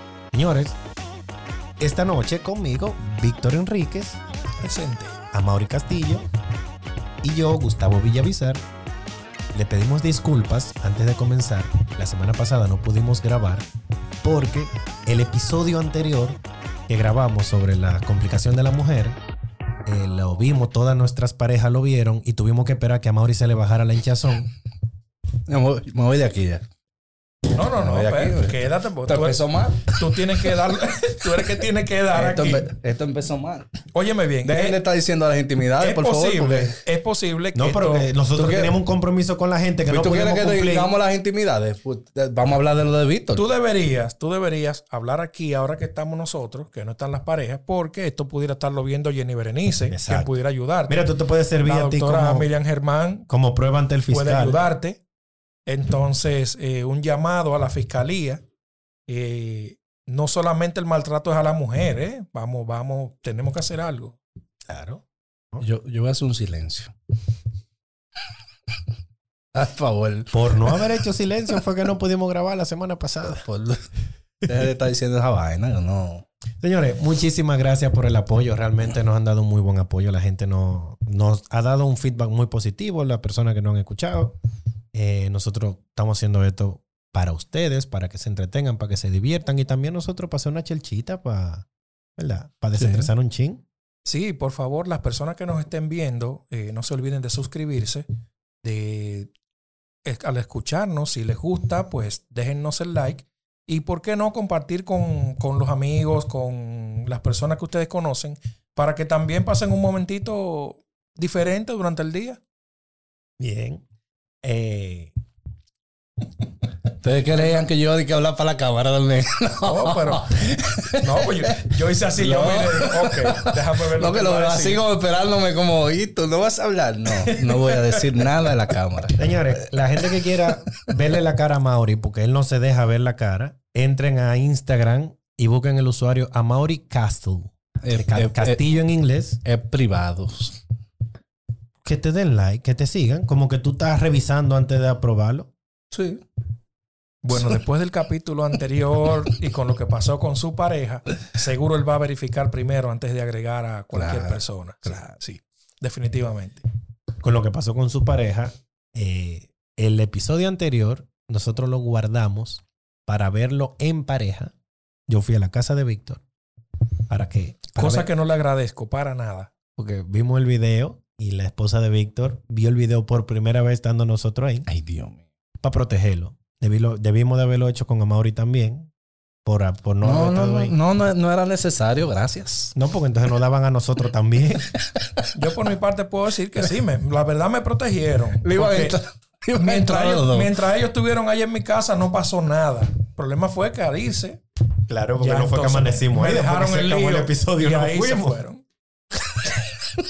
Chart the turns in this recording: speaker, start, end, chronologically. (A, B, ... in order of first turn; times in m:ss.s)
0:00.3-0:00.8 A
0:01.8-0:04.2 A
0:04.6-0:05.2 B
0:05.3-0:06.3 A
0:07.2-0:08.6 A
0:09.5-0:13.7 A
0:14.2-0:19.2 A
0:19.9-0:24.5 A
0:25.5-0:26.6 C
0:27.5-0:32.7 B
0:27.8-0:30.0 C
0:32.1-0:33.7 C
0:33.9-0:34.8 B
0:34.4-0:36.8 C
0:35.8-0:38.1 B
0:37.6-0:40.9 A
0:38.4-0:38.8 C
0:39.9-0:43.4 C
0:43.4-0:51.1 B
0:49.9-0:50.3 A
0:50.9-0:52.5 A
0:51.6-0:53.3 B
0:53.3-0:54.6 A
0:54.1-0:55.0 B
0:55.7-0:58.4 B
0:59.1-1:04.2 B
1:04.7-1:05.6 A
1:05.6-1:06.9 C
1:09.5-1:10.9 C
1:10.3-1:13.5 A
1:13.3-1:13.9 C
1:14.4-1:16.2 C
1:16.6-1:24.4 A
1:24.9-1:31.7 A
1:32.2-1:33.6 A
1:32.8-1:33.1 C
1:34.0-1:38.1 B
1:38.6-1:39.3 B
1:40.0-1:52.4 B
1:53.4-1:53.8 A
1:54.4-1:55.1 A
1:57.0-2:09.3 C
1:59.6-2:00.3 B
2:01.0-2:04.8 B
2:07.2-2:08.1 B
2:09.2-2:19.4 A
2:17.8-2:18.6 C
2:19.4-2:20.6 C
2:21.8-2:25.5 A
2:25.9-2:26.2 C
2:27.2-2:36.6 B
2:33.9-2:35.1 C
2:37.2-2:44.5 A
2:45.1-2:46.2 A
2:47.1-2:48.1 A
2:47.8-2:49.5 B
2:49.8-2:54.7 A
2:54.7-2:55.2 C
2:55.6-2:58.9 A
2:59.4-3:00.8 A
3:00.0-3:02.7 C
3:02.8-3:04.8 A
3:04.8-3:05.3 C
3:05.3-3:09.0 B
3:08.4-3:10.6 C
3:09.5-3:14.4 B
3:14.9-3:18.4 A
3:15.2-3:18.6 B